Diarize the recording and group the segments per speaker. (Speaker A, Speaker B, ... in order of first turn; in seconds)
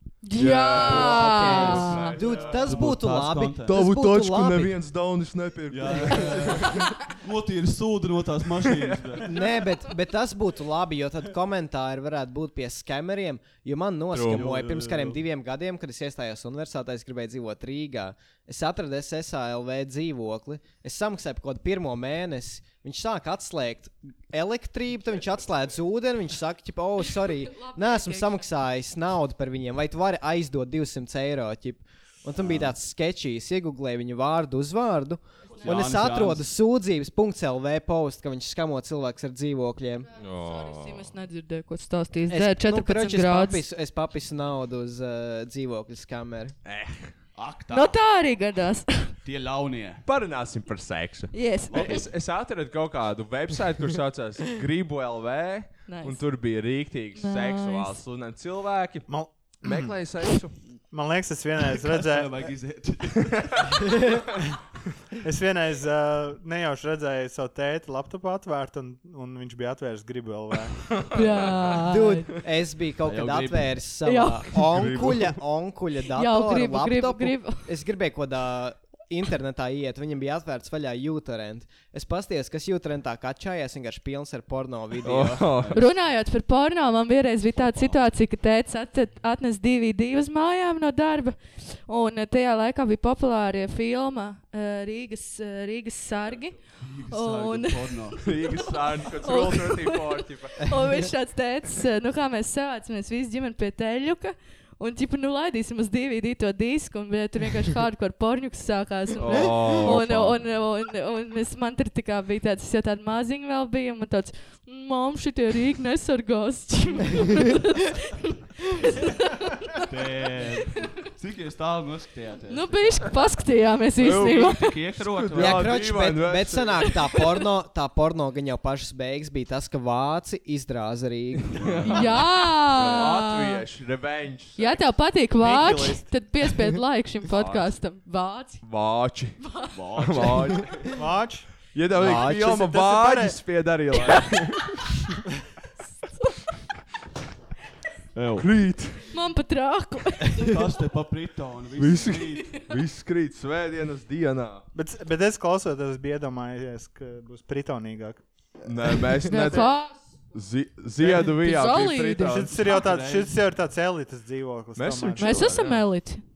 Speaker A: 0.2-2.2, 27.4-28.5, 40.2-43.6, 47.7-49.1, 51.3-52.0, 55.9-56.2, 57.2-58.0, 71.1-72.3, 74.0-74.6, 76.1-77.6, 85.7-96.6, 97.1-98.3, 99.2-119.9, 122.5-124.6, 131.9-133.6, 134.6-138.6, 139.4-139.7, 149.1-150.6, 159.2-160.0, 161.4-162.5, 165.2-166.2
Speaker B: 0.4-2.8, 3.7-6.9, 8.7-9.2, 14.1-14.5, 40.2-41.1, 46.6-47.1, 50.0-59.1, 59.6-60.5, 63.2-63.7, 70.9-71.8, 74.7-75.4, 85.0-85.8, 98.2-100.6, 109.2-110.4, 124.0-127.0, 131.4-134.8, 137.3-137.7, 138.6-139.4, 139.9-140.9, 141.7-144.8, 148.4-149.1, 151.8-154.6, 158.6-159.8, 160.3-162.5, 164.8-165.8
Speaker C: 0.8-4.7, 9.2-40.1, 42.3-46.6, 71.9-85.7, 125.4-131.6, 142.0-142.3
Speaker D: 2.6-3.8, 5.7-9.4, 14.3-15.2, 35.6-36.5, 47.4-48.0, 49.2-50.0, 51.7-52.1, 61.7-64.1, 73.0-73.8, 85.5-85.8, 87.6-88.0, 96.8-98.2, 119.9-123.1, 124.3-125.8, 131.5-132.1, 139.7-140.9, 148.1-148.5, 150.4-152.5, 162.6-163.4
Speaker E: 59.1-59.9, 60.9-62.5, 65.2-70.9, 135.4-136.1, 140.9-143.4, 154.7-158.2, 159.2-159.7, 162.2-165.6